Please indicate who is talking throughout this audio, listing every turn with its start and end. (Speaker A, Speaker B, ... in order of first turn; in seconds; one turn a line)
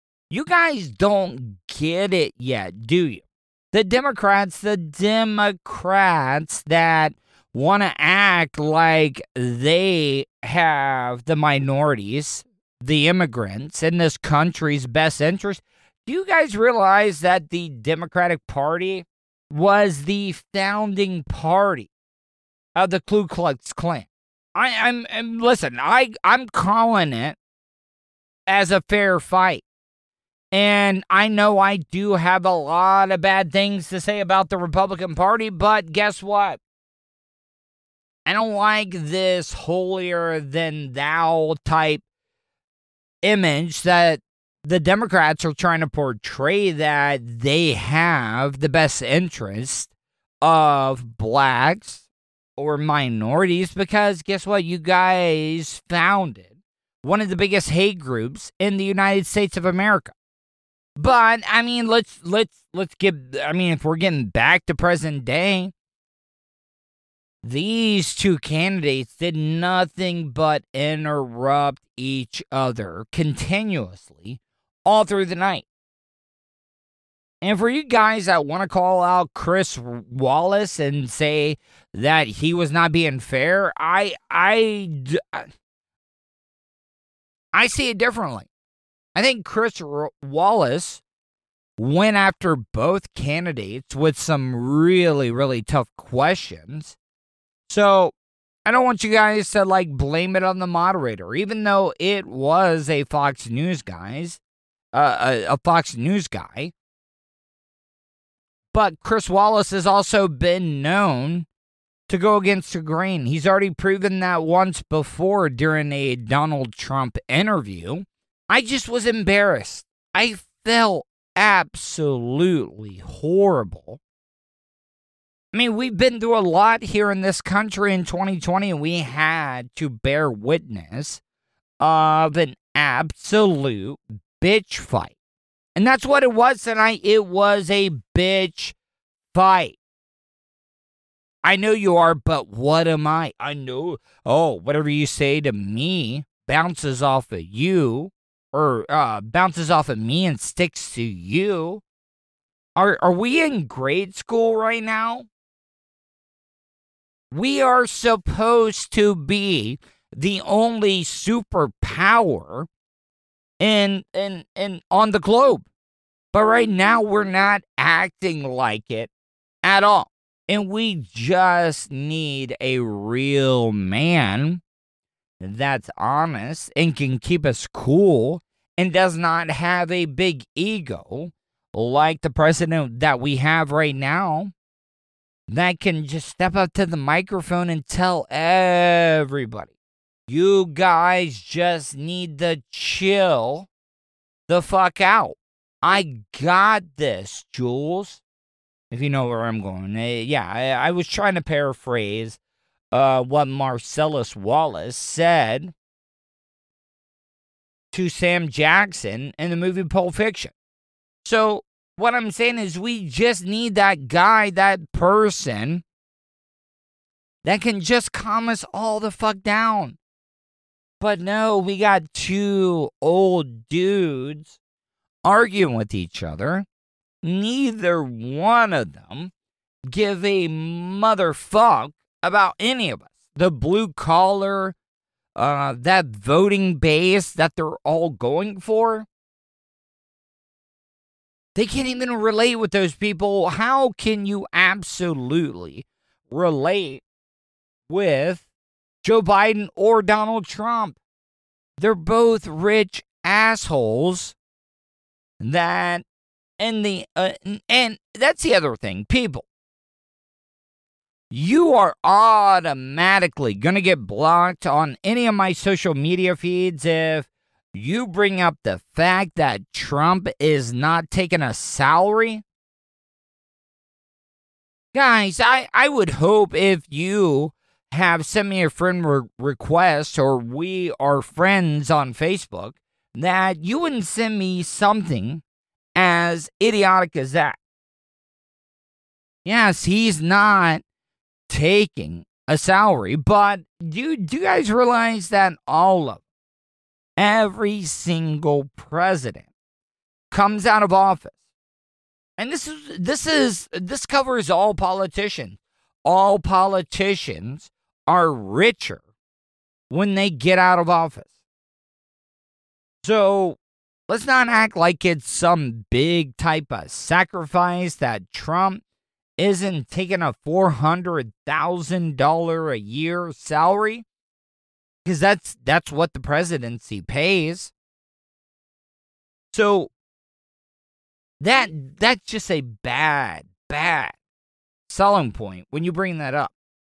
Speaker A: 0.3-21.9
Speaker A: 22.8-27.4
Speaker A: 28.5-29.6
Speaker A: 30.5-36.6
Speaker A: 38.3-42.0
Speaker A: 43.2-49.9
Speaker A: 50.4-52.0
Speaker A: 52.6-56.5
Speaker A: 57.0-60.1
Speaker A: 61.0-65.7
Speaker A: 67.4-75.7
Speaker A: 77.4-85.5
Speaker A: 87.5-88.5
Speaker A: 89.2-91.0
Speaker A: 91.8-97.0
Speaker A: 97.7-98.1
Speaker A: 98.7-104.4
Speaker A: 104.9-106.7
Speaker A: 108.7-111.5
Speaker A: 112.1-124.0
Speaker A: 125.5-131.2
Speaker A: 131.8-135.1
Speaker A: 135.8-138.8
Speaker A: 139.3-139.8
Speaker A: 141.4-151.8
Speaker A: 152.8-155.3
Speaker A: 157.3-162.7
Speaker A: 163.6-165.7
Speaker A: 166.3-169.1
Speaker A: 169.6-174.6
Speaker A: 175.4-184.5
Speaker A: 185.5-189.7
Speaker A: 190.3-193.7
Speaker A: 194.5-198.2
Speaker A: 198.9-202.4
Speaker A: 202.9-205.7
Speaker A: 207.9-210.5
Speaker A: 211.2-215.8
Speaker A: 217.4-220.0
Speaker A: 221.0-224.6
Speaker A: 225.2-226.7
Speaker A: 227.2-229.3
Speaker A: 229.9-234.8
Speaker A: 235.4-239.1
Speaker A: 241.6-247.0
Speaker A: 247.9-248.4
Speaker A: 249.0-251.0
Speaker A: 251.8-254.4
Speaker A: 255.4-256.1
Speaker A: 256.6-259.5
Speaker A: 261.3-272.4
Speaker A: 274.9-285.4
Speaker A: 286.0-287.6
Speaker A: 289.4-290.8
Speaker A: 291.5-296.2
Speaker A: 297.2-299.5
Speaker A: 300.3-301.3
Speaker A: 302.4-309.0
Speaker A: 309.9-311.3
Speaker A: 313.0-318.8
Speaker A: 319.4-324.1
Speaker A: 325.1-327.7
Speaker A: 329.5-329.9
Speaker A: 331.4-334.2
Speaker A: 334.9-336.5